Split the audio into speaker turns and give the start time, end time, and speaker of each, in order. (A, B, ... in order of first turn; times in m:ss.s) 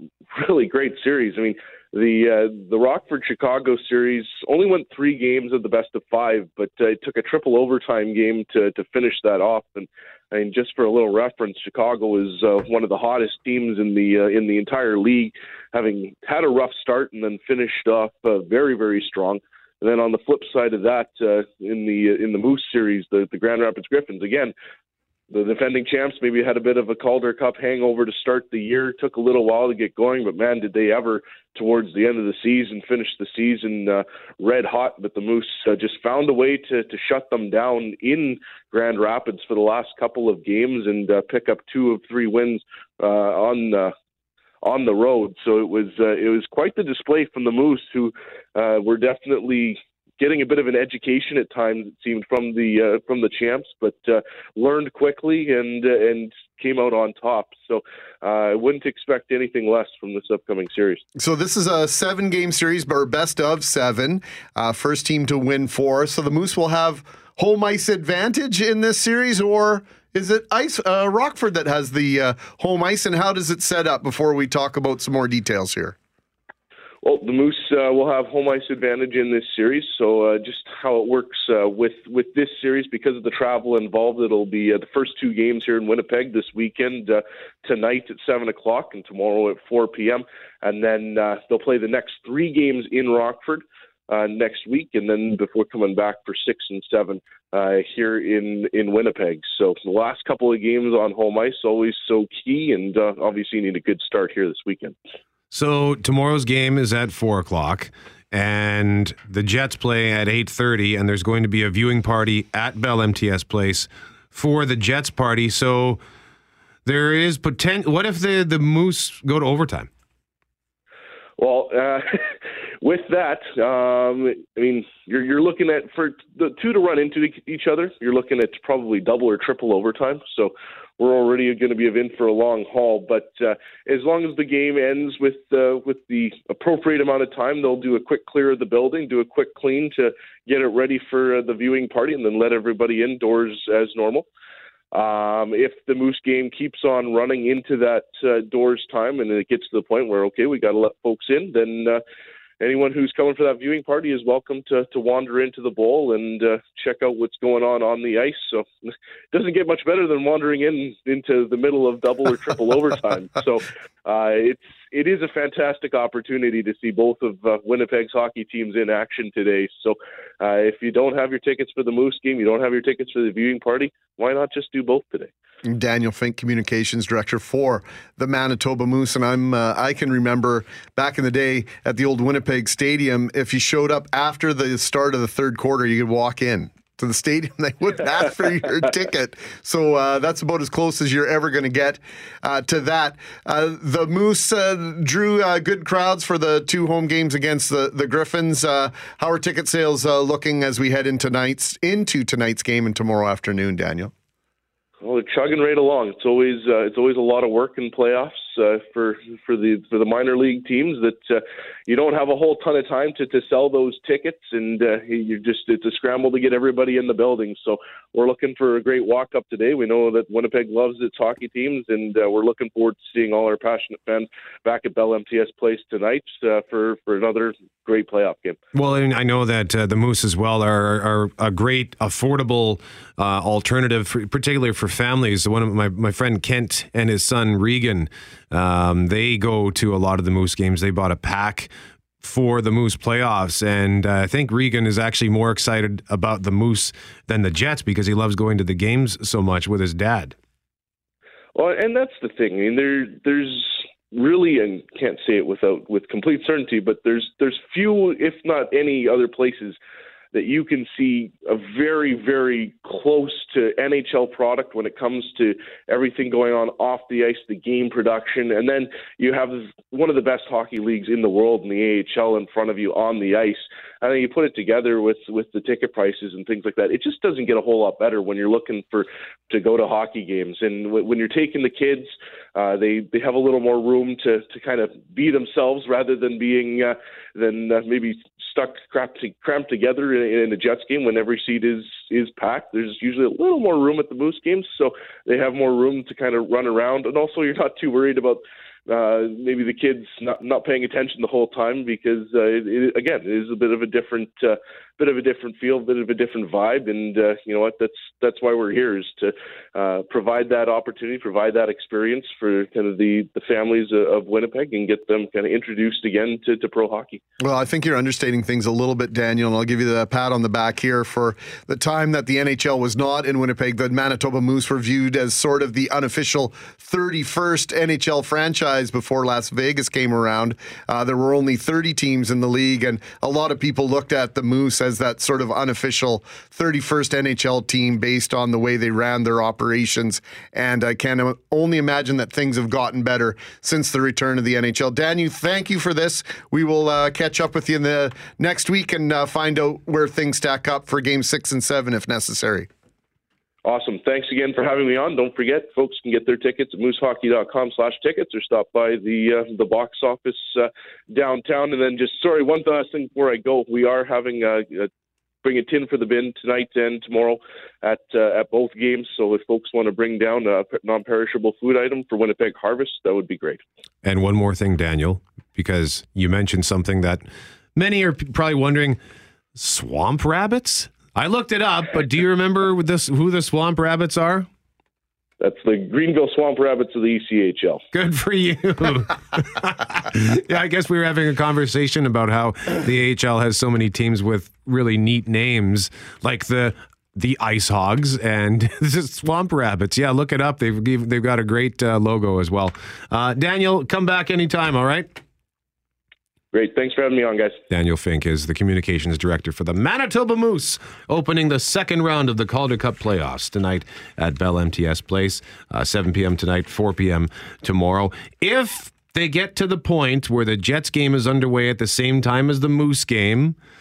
0:00.3-0:24.5 A
0:25.3-0:43.9 A
0:44.6-1:01.0 A
1:01.2-1:16.0 B
1:17.0-1:44.9 A
1:45.5-1:56.0 C
1:56.8-1:59.9 C
2:01.4-2:02.0 A
2:02.8-2:24.3 A
2:24.9-2:32.0 A
2:32.6-2:38.7 A
2:39.3-2:55.3 A
2:55.6-3:24.1 B
3:25.0-3:48.6 A
3:48.7-4:01.7 C
4:02.2-4:10.3 C
4:11.5-4:19.8 A
4:20.3-5:17.2 A
5:17.4-5:52.7 B
5:53.6-6:04.9 A
6:05.4-6:13.6 A
6:14.0-6:17.2 C
6:17.8-6:19.0 C
6:19.6-6:24.5 C
6:25.4-6:27.8 A
6:27.9-6:45.1 C
6:46.5-6:47.6 A
6:47.7-7:03.6 C